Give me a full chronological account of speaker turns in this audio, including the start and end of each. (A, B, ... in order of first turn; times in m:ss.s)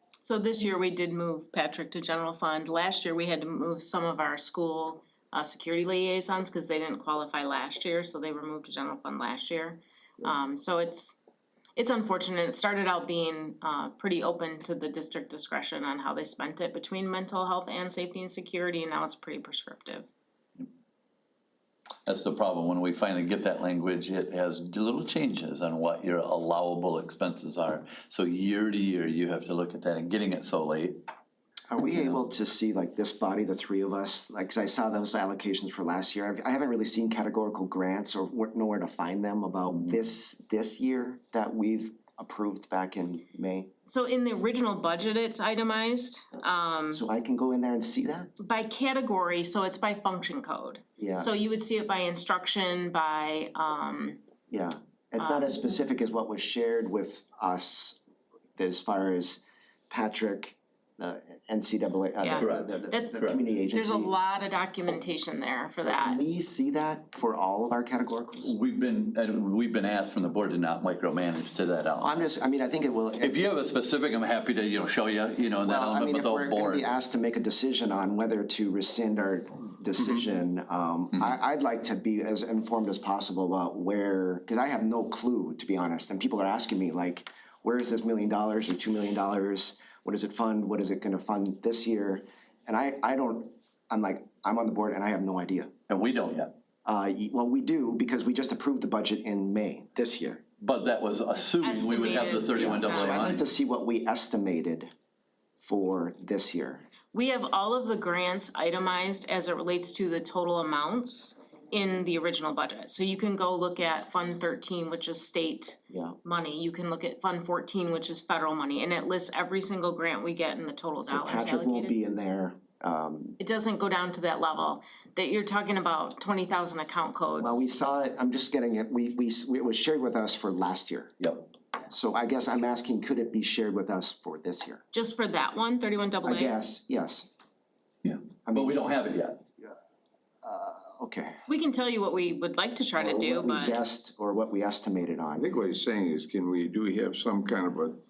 0:00.2-0:11.1 A
0:11.8-0:20.1 A
0:22.0-0:31.0 B
0:31.7-0:43.7 C
0:39.7-0:40.0 B
0:43.8-0:47.0 A
0:46.9-0:48.3 C
0:48.4-0:54.2 A
0:51.0-0:51.4 C
0:54.5-0:58.0 C
0:55.2-0:55.9 A
0:58.6-1:04.1 C
1:02.2-1:06.2 A
1:02.4-1:03.4 B
1:05.8-1:08.5 C
1:08.4-1:12.2 B
1:12.0-1:13.4 C
1:13.2-1:16.9 B
1:15.6-1:35.7 C
1:35.9-1:36.5 B
1:36.8-1:40.4 C
1:40.6-1:43.5 B
1:41.6-1:43.3 A
1:42.5-1:44.9 C
1:45.6-1:46.8 C
1:47.1-2:02.0 A
1:55.9-1:56.2 C
2:01.0-2:03.4 C
2:03.4-2:07.7 A
2:07.4-2:11.1 C
2:11.2-2:11.5 B
2:11.9-2:14.8 C
2:14.9-2:16.6 A
2:16.2-2:17.3 C
2:18.0-2:19.4 B
2:18.4-2:18.9 C
2:20.4-2:21.3 C
2:21.5-2:23.8 A
2:23.0-2:25.5 C
2:25.3-2:28.0 D